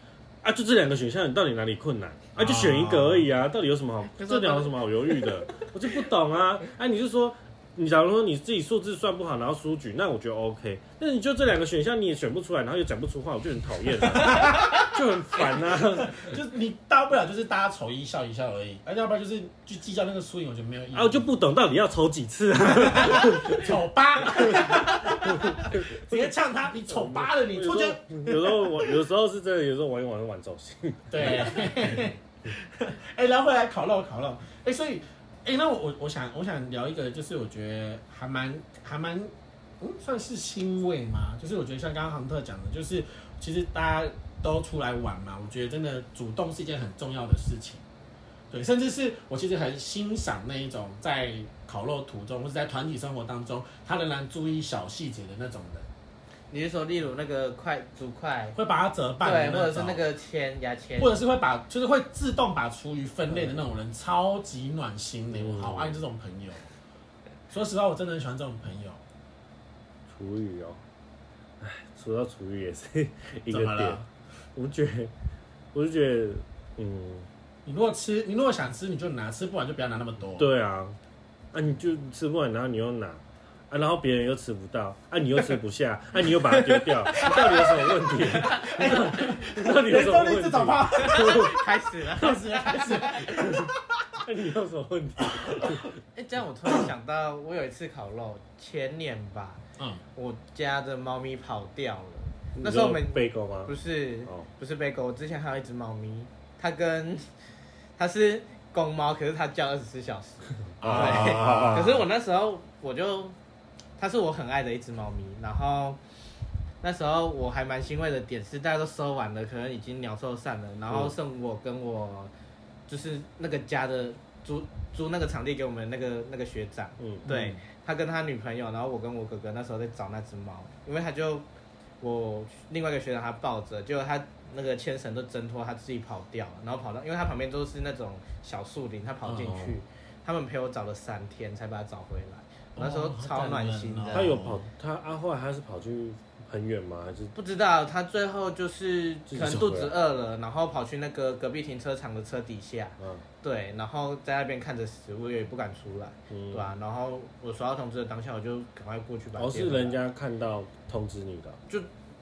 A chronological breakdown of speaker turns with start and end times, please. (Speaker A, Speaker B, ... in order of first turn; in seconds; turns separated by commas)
Speaker A: 0.4-16.4, Speaker B: 2.4-3.3, Speaker C: 4.1-5.6, Speaker C: 14.2-14.7, Speaker B: 14.2-14.9, Speaker B: 16.0-21.2, Speaker A: 20.9-23.8, Speaker B: 22.7-29.0, Speaker A: 24.4-32.0, Speaker B: 31.1-47.8, Speaker B: 48.5-55.9, Speaker C: 56.5-58.6, Speaker B: 58.5-60.1, Speaker C: 59.2-61.2, Speaker B: 61.0-66.7, Speaker A: 65.3-66.0, Speaker B: 67.5-69.0, Speaker A: 70.1-70.8, Speaker A: 71.6-74.0, Speaker B: 73.5-74.1, Speaker A: 74.5-75.1, Speaker A: 75.7-77.3, Speaker B: 77.7-80.5, Speaker A: 80.4-81.0, Speaker A: 81.5-91.6, Speaker C: 86.3-89.2, Speaker B: 87.2-87.6, Speaker B: 88.3-91.5, Speaker C: 91.0-93.6, Speaker B: 92.2-93.7, Speaker A: 93.2-95.9, Speaker B: 95.4-95.8, Speaker C: 96.1-99.6, Speaker B: 99.8-100.0, Speaker C: 100.2-107.3, Speaker A: 102.6-103.7, Speaker C: 108.0-113.4, Speaker A: 110.8-112.0, Speaker B: 110.8-112.0, Speaker C: 114.0-116.0, Speaker C: 116.8-122.3, Speaker C: 122.9-131.5, Speaker A: 127.0-127.6, Speaker C: 132.0-144.4, Speaker B: 139.2-139.8, Speaker B: 142.8-144.6, Speaker A: 144.1-147.3, Speaker C: 147.3-160.0, Speaker A: 149.3-149.9, Speaker A: 153.0-153.3, Speaker A: 156.3-156.7, Speaker A: 159.4-161.6